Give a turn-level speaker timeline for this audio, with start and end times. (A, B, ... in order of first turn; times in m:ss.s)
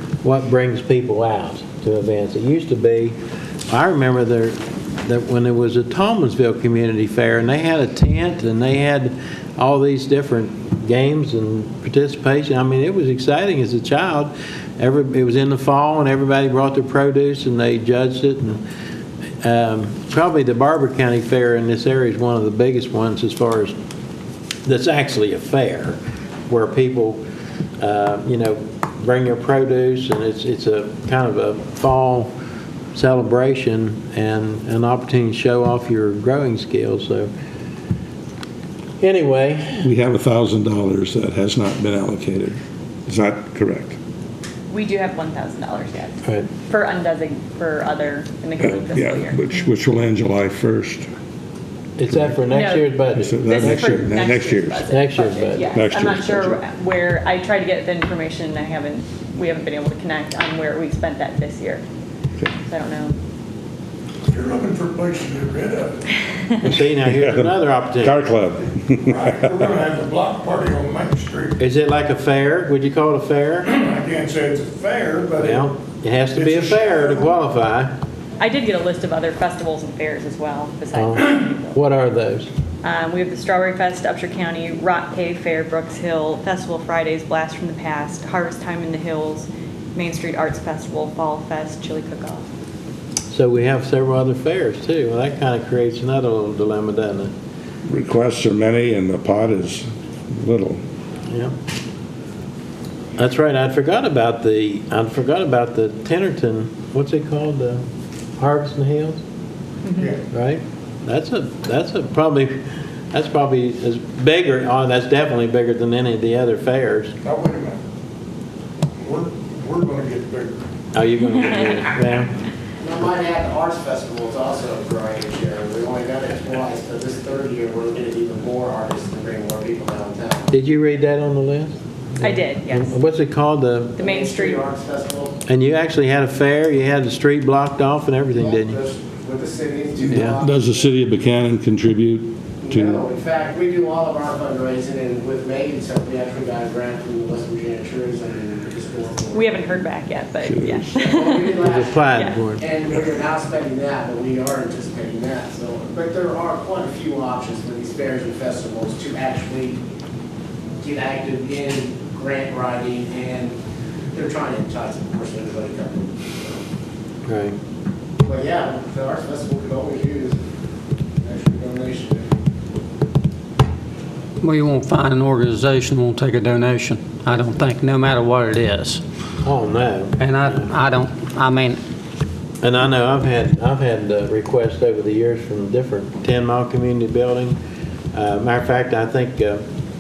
0:00.2-0:03.2 A
0:03.7-0:18.6 A
0:19.4-0:23.8 A
0:24.6-0:26.0 A
0:26.5-0:27.2 A
0:27.8-0:32.3 A
0:32.9-0:37.3 A
0:39.0-0:39.9 A
0:39.8-0:44.0 B
0:44.7-0:49.5 C
0:48.6-0:51.1 B
0:52.0-0:54.2 A
0:52.5-1:01.8 C
0:53.2-0:54.9 B
0:54.9-0:55.6 A
0:55.7-0:56.6 B
1:02.6-1:03.2 C
1:04.3-1:06.0 D
1:06.6-1:08.2 A
1:06.8-1:09.4 B
1:09.0-1:11.6 D
1:11.6-1:13.7 A
1:13.7-1:15.7 D
1:15.4-1:17.9 A
1:16.3-1:17.3 D
1:18.4-1:21.8 C
1:20.9-1:22.5 A
1:22.8-1:32.5 C
1:33.3-1:37.3 A
1:37.8-1:40.8 B
1:41.3-1:41.5 A
1:43.2-1:47.8 A
1:48.4-1:49.2 A
1:50.2-1:52.6 A
1:53.1-1:57.2 A
1:57.2-1:57.8 D
1:59.0-2:00.6 D
2:00.9-2:02.3 A
2:02.8-2:10.5 E
2:10.5-2:14.0 A
2:12.2-2:13.0 C
2:14.0-2:14.6 C
2:14.0-2:15.3 E
2:15.5-2:18.8 A
2:18.4-2:20.9 E
2:20.1-2:20.4 A
2:20.2-2:23.0 B
2:22.6-2:29.6 E
2:29.3-2:32.4 C
2:30.4-2:31.0 B
2:31.0-2:39.8 E
2:31.6-2:32.6 A
2:40.8-2:43.6 E
2:44.1-2:46.6 E
2:47.3-2:47.6 A
2:48.2-2:50.4 E
2:51.2-2:52.3 E
2:54.4-2:59.0 F
2:59.4-3:00.7 A
3:00.2-3:01.8 F
3:02.6-3:07.6 A
3:08.1-3:09.6 A